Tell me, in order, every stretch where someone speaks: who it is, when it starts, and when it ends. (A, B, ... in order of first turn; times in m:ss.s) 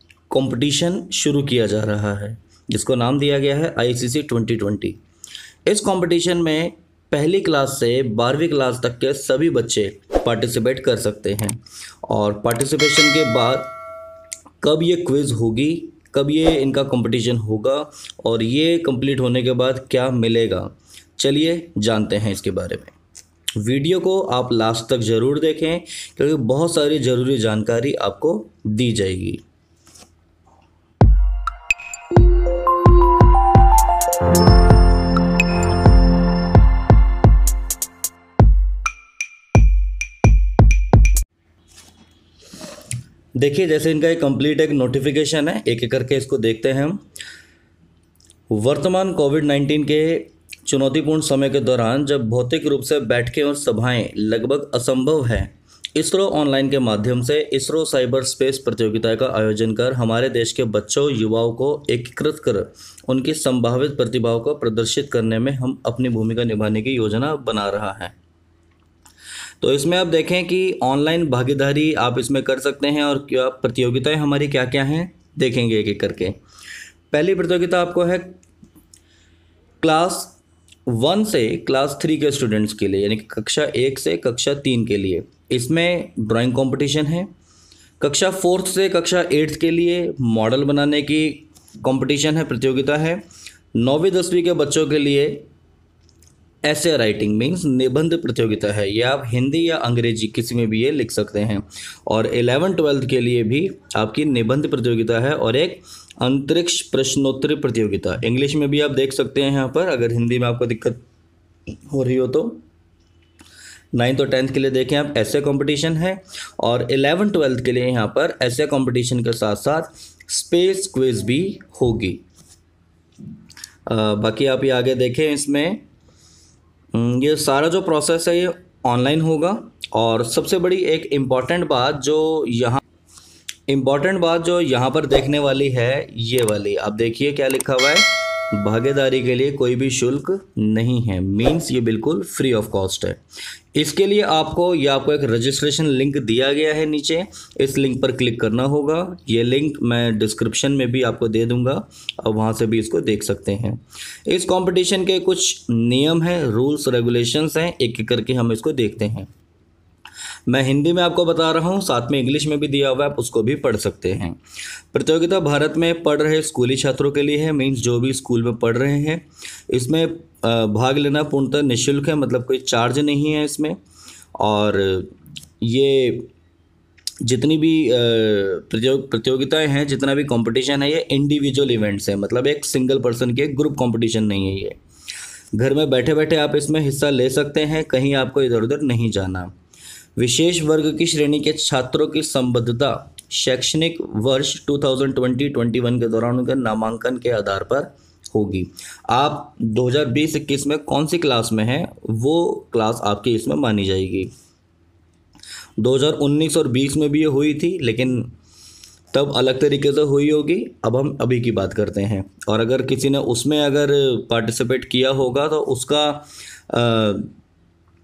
0:00.3-0:05.0 A
0:05.6-0:13.7 A
0:14.6-0:23.0 A
0:23.6-0:29.4 A
0:43.4-0:47.0 A
0:48.5-1:08.2 A
1:09.6-1:16.4 A
1:17.1-1:18.4 A
1:19.8-1:27.3 A
1:28.0-1:33.2 A
1:33.7-1:35.4 A
1:36.6-1:51.0 A
1:51.9-1:52.6 A
1:53.9-2:02.2 A
2:03.8-2:05.8 A
2:06.9-2:12.8 A
2:13.7-2:23.2 A
2:23.7-2:39.3 A
2:40.5-2:44.4 A
2:44.9-2:53.8 A
2:54.4-2:56.3 A
2:57.2-3:04.8 A
3:05.5-3:09.5 A
3:10.2-3:24.3 A
3:25.8-3:28.3 A
3:29.1-3:37.3 A